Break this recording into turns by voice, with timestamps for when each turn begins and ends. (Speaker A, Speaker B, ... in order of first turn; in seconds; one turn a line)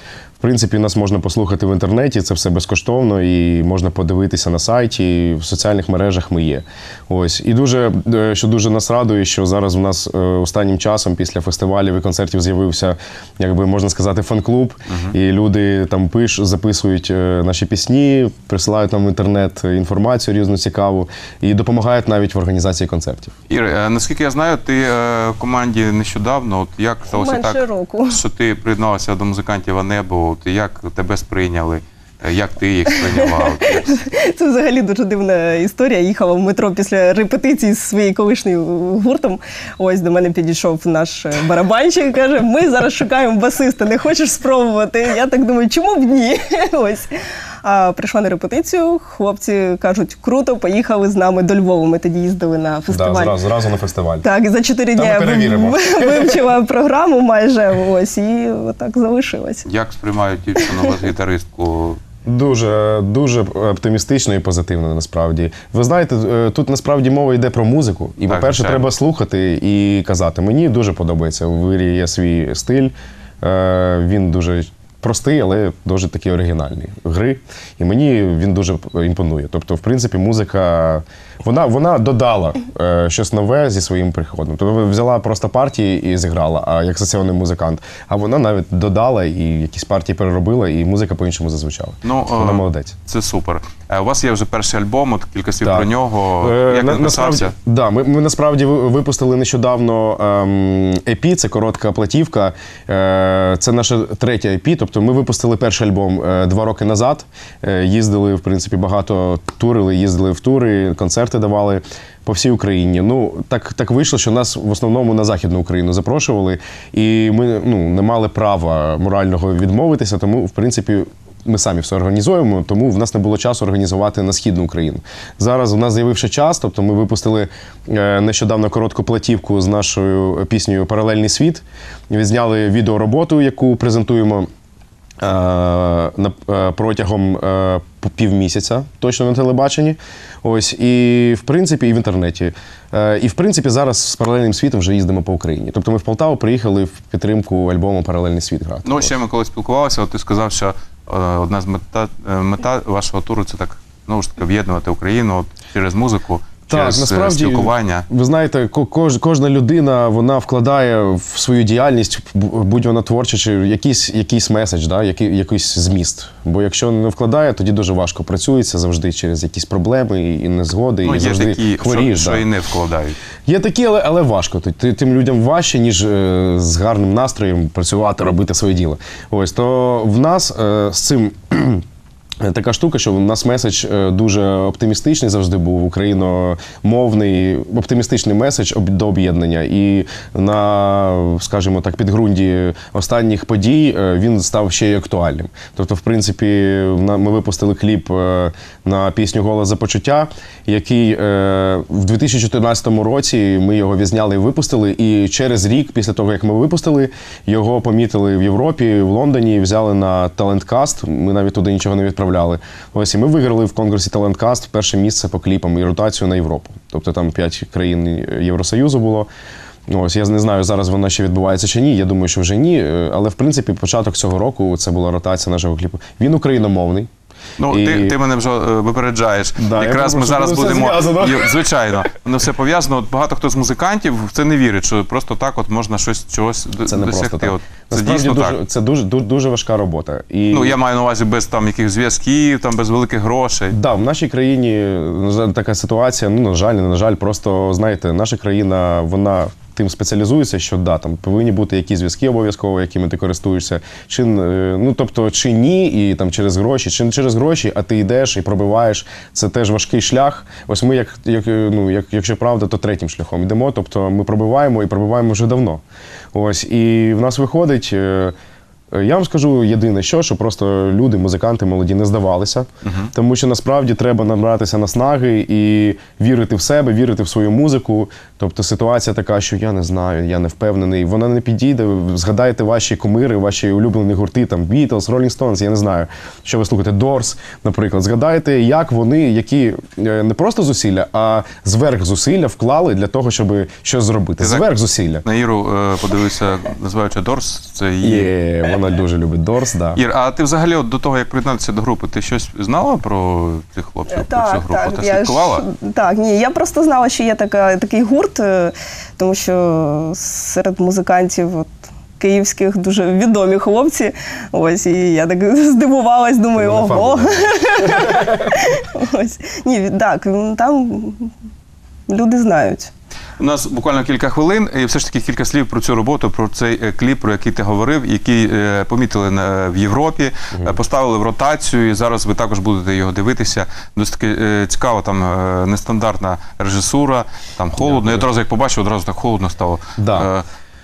Speaker A: 0.4-23.3
Speaker B: 23.5-34.0
Speaker C: 27.1-28.2
Speaker C: 33.0-53.4
Speaker A: 52.9-54.3
Speaker C: 54.2-59.6
Speaker A: 54.9-56.5
Speaker B: 59.6-62.0
Speaker A: 62.2-93.0
Speaker B: 68.3-68.9
Speaker B: 92.0-97.5
Speaker A: 95.6-134.5
Speaker A: 135.2-149.1
Speaker B: 148.8-158.1
Speaker A: 156.7-172.4
Speaker B: 171.0-173.2
Speaker A: 173.4-181.8
Speaker A: 182.4-219.3
Speaker A: 219.9-227.1
Speaker B: 227.6-238.6
Speaker A: 227.7-228.1
Speaker A: 229.6-231.6
Speaker A: 236.8-240.8
Speaker B: 240.5-243.7
Speaker A: 243.7-268.3
Speaker A: 268.9-295.2
Speaker B: 272.8-273.1
Speaker B: 294.4-294.6
Speaker B: 295.2-298.3
Speaker A: 298.0-300.0
Speaker B: 299.9-305.6
Speaker C: 304.1-321.3
Speaker A: 316.6-318.4
Speaker C: 322.1-322.9
Speaker B: 323.4-340.4
Speaker A: 337.9-338.2
Speaker A: 340.0-340.3